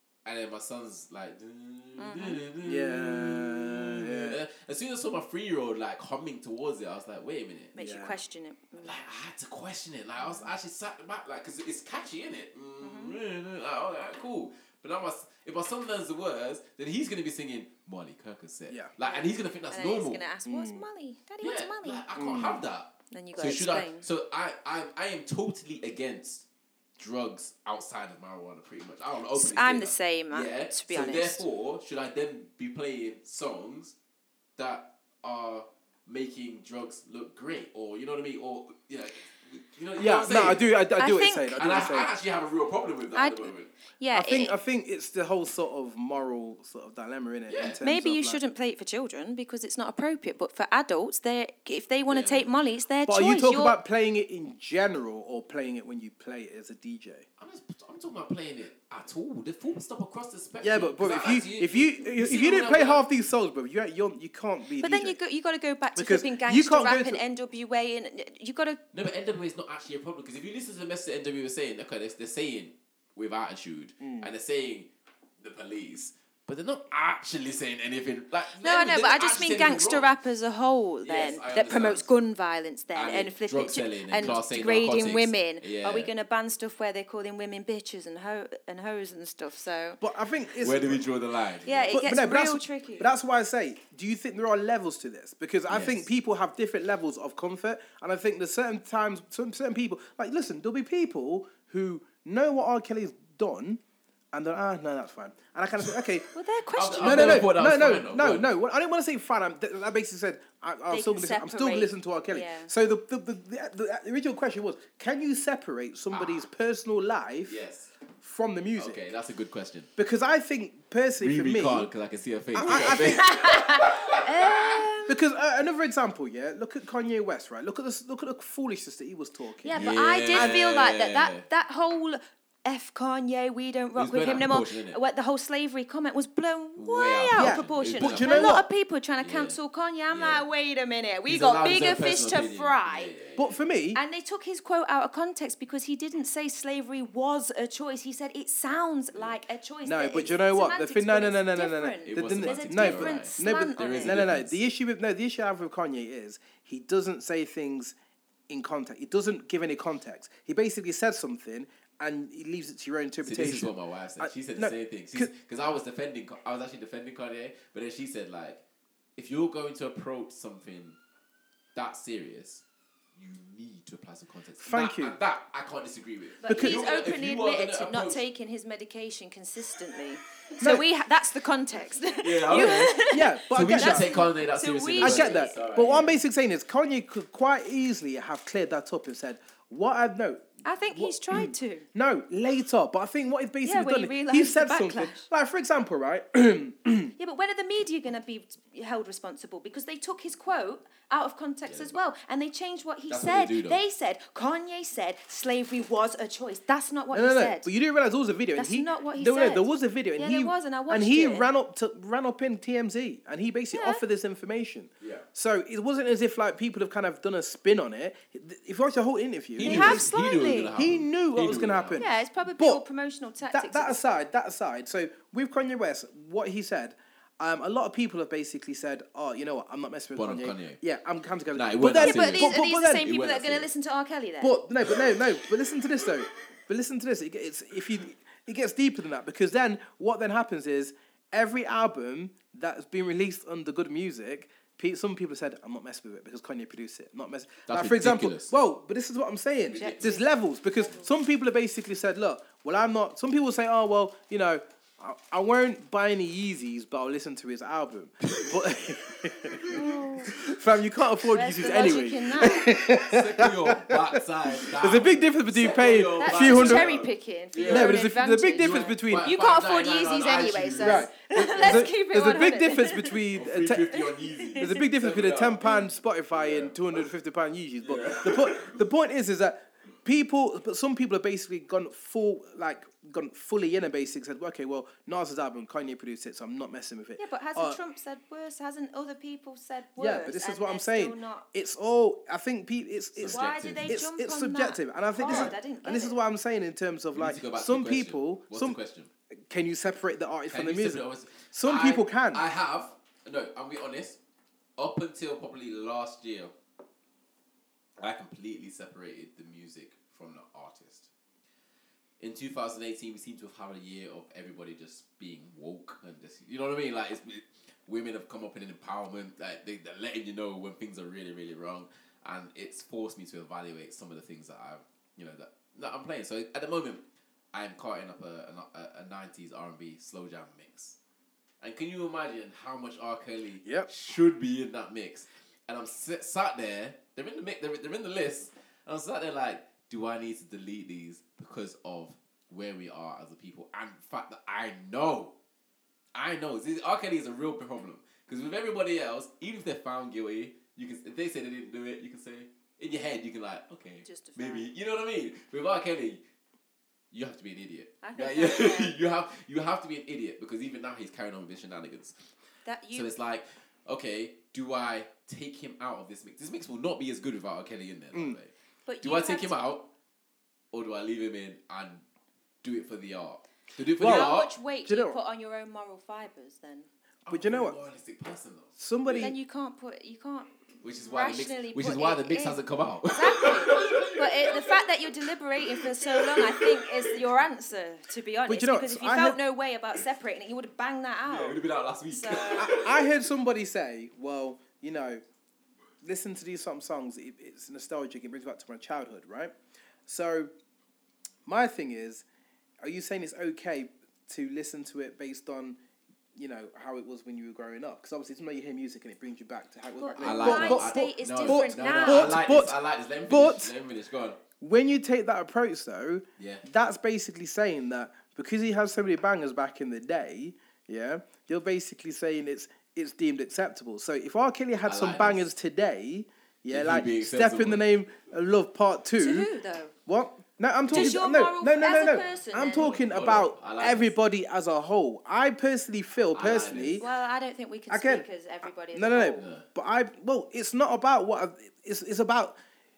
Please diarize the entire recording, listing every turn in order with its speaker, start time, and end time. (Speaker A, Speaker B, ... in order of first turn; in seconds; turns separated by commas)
Speaker A: 0.2-7.7, Speaker B: 2.0-2.4, Speaker C: 2.6-4.4, Speaker B: 7.7-9.0, Speaker C: 7.7-8.1, Speaker A: 8.8-20.2, Speaker B: 12.8-13.2, Speaker B: 19.0-22.1, Speaker C: 20.4-20.8, Speaker A: 21.4-26.4, Speaker C: 22.2-22.6, Speaker B: 23.1-24.1, Speaker A: 27.0-34.0, Speaker B: 29.3-31.4, Speaker A: 34.6-40.7, Speaker C: 40.0-42.1, Speaker B: 41.0-41.7, Speaker A: 41.6-43.7, Speaker B: 43.1-44.5, Speaker C: 44.1-48.4, Speaker A: 47.5-47.8, Speaker B: 47.8-53.8, Speaker A: 52.1-52.5, Speaker C: 53.1-57.3, Speaker A: 57.4-63.0, Speaker C: 60.6-65.2, Speaker B: 64.8-68.8, Speaker C: 66.0-67.2, Speaker A: 68.9-74.9, Speaker C: 74.0-74.3, Speaker A: 75.4-80.2, Speaker B: 78.6-90.0, Speaker A: 81.0-82.1, Speaker A: 82.9-86.1, Speaker C: 90.0-91.1, Speaker A: 90.6-92.0, Speaker B: 91.6-93.1, Speaker C: 91.9-103.8, Speaker A: 95.7-96.1, Speaker C: 104.3-106.3, Speaker B: 106.3-107.5, Speaker A: 106.7-108.5, Speaker C: 107.0-117.6, Speaker B: 110.9-112.7, Speaker A: 116.1-116.5, Speaker A: 117.5-117.9, Speaker C: 118.2-119.1, Speaker A: 118.8-119.9, Speaker C: 120.0-121.9, Speaker A: 121.2-124.9, Speaker C: 122.5-123.3, Speaker B: 122.7-125.2, Speaker C: 125.1-130.6, Speaker B: 129.6-143.1, Speaker A: 129.7-131.4, Speaker A: 133.9-135.0, Speaker A: 136.8-138.6, Speaker C: 137.3-138.7, Speaker A: 139.2-139.6, Speaker A: 140.1-140.5, Speaker A: 141.3-143.6, Speaker C: 143.4-144.0, Speaker B: 143.9-154.2, Speaker A: 149.1-149.4, Speaker C: 149.8-157.9, Speaker A: 152.1-154.6, Speaker C: 158.5-165.3, Speaker A: 163.2-168.6, Speaker A: 169.2-171.0, Speaker A: 171.7-172.6, Speaker A: 173.1-178.2, Speaker C: 174.6-175.2, Speaker B: 176.4-185.5, Speaker C: 176.5-176.8, Speaker A: 182.2-186.2, Speaker C: 182.5-184.2, Speaker C: 185.0-197.1, Speaker B: 190.6-191.9, Speaker B: 193.6-195.3, Speaker B: 197.2-207.7, Speaker A: 201.6-202.0, Speaker A: 203.1-203.8, Speaker C: 207.1-220.1, Speaker B: 208.6-211.5, Speaker B: 213.7-214.0, Speaker A: 215.0-215.3, Speaker A: 219.6-222.0, Speaker B: 219.6-220.7, Speaker C: 220.8-222.8, Speaker B: 221.9-224.0, Speaker C: 223.4-233.1, Speaker A: 230.2-230.8, Speaker A: 231.5-233.7, Speaker B: 232.0-234.6, Speaker C: 234.4-266.9, Speaker A: 234.9-235.1, Speaker A: 247.7-248.5, Speaker A: 249.7-250.2, Speaker B: 249.7-251.1, Speaker A: 258.2-258.6, Speaker B: 259.7-260.4, Speaker B: 261.3-262.7, Speaker A: 262.7-268.1, Speaker B: 266.2-273.2, Speaker C: 267.6-269.3, Speaker A: 268.6-271.9, Speaker C: 270.8-273.9, Speaker A: 273.3-275.8, Speaker B: 273.9-274.8, Speaker C: 274.6-287.8, Speaker A: 276.3-277.0, Speaker A: 277.8-278.8, Speaker B: 287.2-291.5, Speaker C: 290.0-298.8, Speaker A: 293.2-293.9, Speaker B: 293.3-296.2, Speaker A: 295.2-295.5, Speaker A: 297.1-299.1, Speaker C: 299.5-302.4, Speaker A: 300.5-304.2, Speaker A: 304.8-306.5, Speaker A: 308.0-311.1, Speaker A: 312.2-331.0, Speaker A: 331.6-345.3, Speaker C: 333.6-333.9, Speaker A: 346.1-356.2, Speaker B: 354.0-354.7, Speaker A: 357.1-362.2, Speaker B: 358.0-358.9, Speaker B: 362.6-363.1, Speaker A: 362.9-369.9, Speaker B: 368.9-369.6, Speaker A: 370.7-372.0, Speaker A: 372.6-374.5, Speaker C: 374.0-375.2, Speaker B: 374.0-376.9, Speaker A: 377.3-379.3, Speaker C: 377.3-377.8, Speaker C: 378.8-379.4, Speaker B: 379.2-392.7, Speaker A: 380.8-384.9, Speaker A: 385.6-387.2, Speaker C: 388.5-389.4, Speaker A: 391.2-393.1, Speaker C: 392.6-395.2, Speaker C: 396.0-399.5, Speaker C: 400.1-400.5, Speaker C: 401.4-402.2, Speaker C: 402.8-405.8, Speaker C: 406.4-413.7, Speaker B: 410.0-412.4, Speaker A: 410.2-414.4, Speaker C: 414.6-429.5, Speaker A: 416.4-416.6, Speaker A: 424.9-425.5, Speaker A: 426.7-427.9, Speaker B: 429.2-429.9, Speaker C: 430.1-437.1, Speaker A: 430.9-431.2, Speaker B: 430.9-432.9, Speaker A: 432.7-434.1, Speaker A: 436.3-437.1, Speaker B: 437.0-439.4, Speaker C: 437.9-438.2, Speaker C: 438.9-442.6, Speaker A: 439.4-439.6